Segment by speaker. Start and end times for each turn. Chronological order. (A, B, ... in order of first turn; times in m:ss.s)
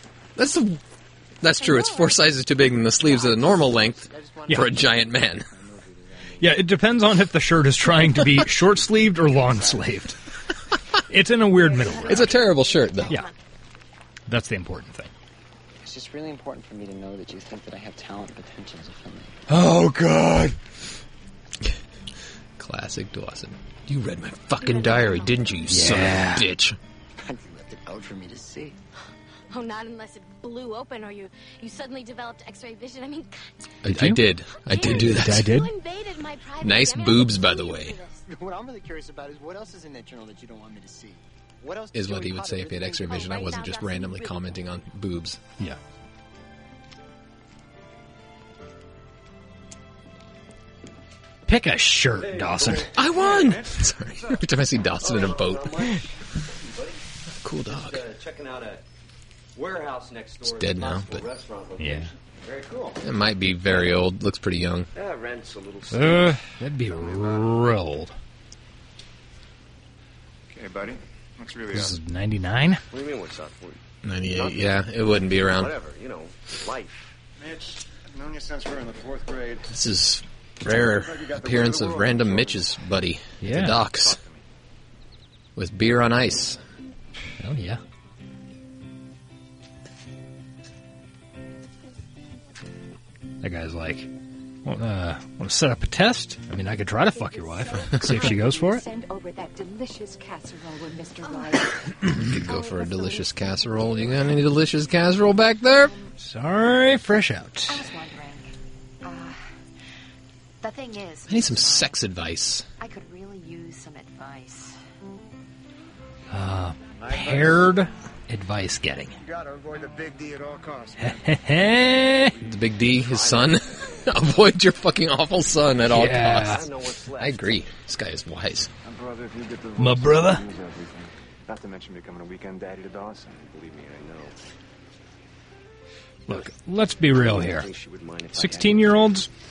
0:00.4-0:00.8 A
0:01.4-0:05.5 A
0:01.5-0:02.2 B
0:03.2-0:06.5 C
0:06.4-0:10.2 D
0:11.1-0:12.4 D
0:11.6-0:13.3 B
0:12.0-0:13.2 A
0:14.3-0:15.1 D
0:15.8-0:19.3 C
0:19.5-0:20.5 A
0:19.5-0:20.3 D
0:22.6-0:26.8 A
0:24.6-0:25.4 B
0:25.7-0:26.4 D
0:27.2-0:28.7 C
0:29.5-0:33.5 B
0:33.8-0:35.6 A
0:33.9-0:34.2 D
0:34.6-0:38.2 B
0:34.8-0:35.7 D
0:36.6-0:38.0 A
0:38.3-0:43.5 C
0:41.9-0:45.4 A
0:42.9-0:44.5 B
0:51.4-0:52.9 D
0:52.1-0:53.6 E
0:52.9-0:55.9 A
0:53.2-0:54.4 F
0:55.0-0:57.0 E
0:57.4-0:58.1 A
0:57.7-0:58.8 E
0:59.5-1:03.0 E
1:00.4-1:01.3 A
1:01.8-1:02.1 D
1:03.0-1:04.9 A
1:03.7-1:03.9 E
1:04.9-1:07.5 E
1:05.9-1:08.1 D
1:10.5-1:12.0 F
1:11.7-1:12.8 D
1:12.9-1:17.1 E
1:14.0-1:15.8 A
1:17.4-1:19.7 F
1:19.7-1:24.2 A
1:20.6-1:22.7 F
1:23.4-1:23.8 D
1:23.8-1:24.4 F
1:25.6-1:26.6 A
1:27.4-1:27.8 D
1:33.4-1:34.1 D
1:34.6-1:38.8 D
1:37.1-1:42.1 G
1:42.1-1:45.9 A
1:42.4-1:44.0 B
1:43.0-1:43.2 G
1:43.9-1:44.2 G
1:45.8-1:46.1 G
1:46.2-1:47.8 D
1:47.7-1:48.5 G
1:49.0-1:49.4 G
1:50.6-1:52.0 G
1:51.3-1:52.6 A
1:52.8-1:54.7 G
1:56.3-1:59.2 D
1:57.0-1:57.8 F
1:59.2-2:02.4 F
2:01.0-2:02.3 D
2:02.4-2:04.0 E
2:02.4-2:08.7 A
2:05.9-2:06.6 D
2:06.3-2:07.6 E
2:08.8-2:13.4 F
2:09.8-2:10.4 D
2:13.3-2:14.4 E
2:16.3-2:17.7 D
2:17.0-2:19.2 E
2:18.3-2:19.3 D